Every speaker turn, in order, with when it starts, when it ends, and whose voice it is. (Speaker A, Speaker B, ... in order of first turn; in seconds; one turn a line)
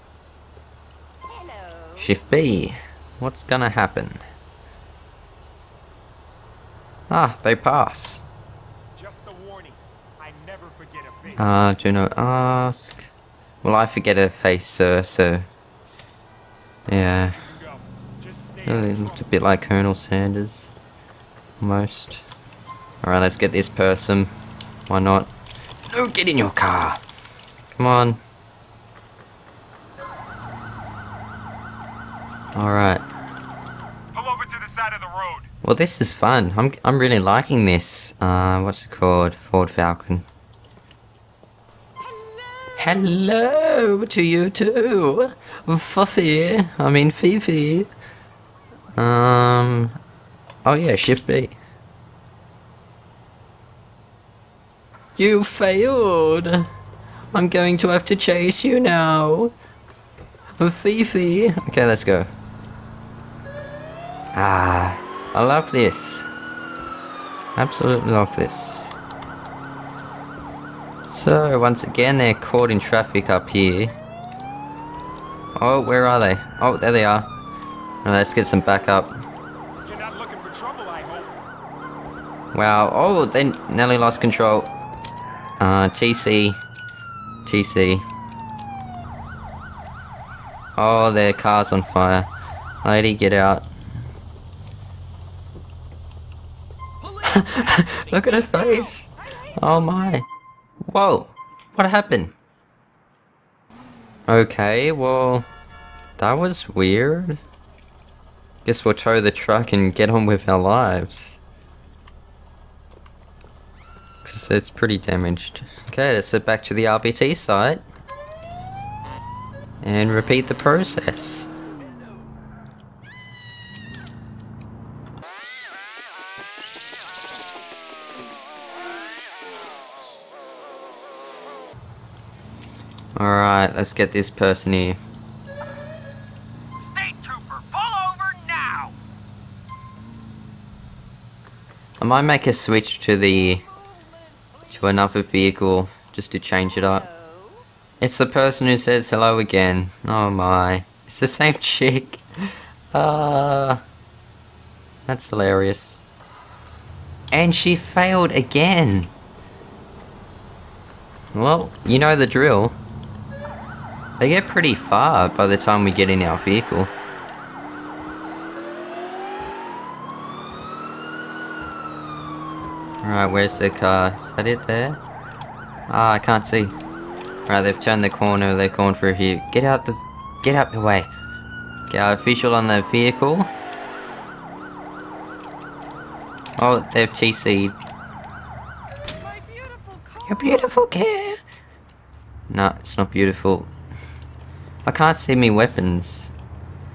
Speaker A: 1.3-2.0
Speaker B: 2.0-4.2
Speaker B: 7.1-8.2
Speaker C: 8.9-11.5
Speaker B: 11.4-13.1
Speaker B: 13.6-15.5
Speaker B: 16.9-17.6
Speaker C: 17.4-19.3
Speaker B: 18.6-20.7
Speaker B: 21.6-22.2
Speaker B: 23.0-24.3
Speaker B: 24.9-25.3
Speaker B: 25.9-27.0
Speaker B: 27.7-28.2
Speaker B: 32.5-33.0
Speaker C: 34.1-35.4
Speaker B: 35.6-40.3
Speaker B: 42.8-47.9
Speaker B: 49.0-50.0
Speaker B: 50.6-51.6
Speaker B: 55.2-56.7
Speaker B: 57.3-59.5
Speaker B: 60.6-62.3
Speaker B: 64.3-66.3
Speaker B: 67.6-68.9
Speaker B: 71.1-73.9
Speaker B: 75.6-77.3
Speaker B: 78.0-79.2
Speaker C: 79.8-81.4
Speaker B: 82.5-84.7
Speaker B: 85.6-86.6
Speaker B: 87.5-88.0
Speaker B: 90.8-92.3
Speaker B: 92.8-93.7
Speaker B: 97.2-100.3
Speaker B: 100.8-102.3
Speaker B: 104.3-105.5
Speaker B: 106.2-107.4
Speaker B: 108.7-111.4
Speaker B: 114.2-117.8
Speaker B: 119.8-121.5
Speaker B: 133.2-135.0
Speaker A: 137.0-138.9
Speaker B: 142.0-143.7
Speaker B: 144.7-147.1
Speaker B: 148.0-152.2
Speaker B: 152.9-153.8
Speaker B: 155.1-156.0
Speaker B: 157.3-159.1
Speaker B: 161.3-162.8
Speaker B: 164.2-166.9
Speaker B: 173.0-175.0
Speaker B: 175.9-176.8
Speaker B: 177.5-181.1
Speaker B: 181.9-183.5
Speaker B: 186.6-187.8
Speaker A: 189.3-190.3
Speaker B: 190.2-191.4
Speaker B: 192.5-193.7
Speaker B: 194.8-196.3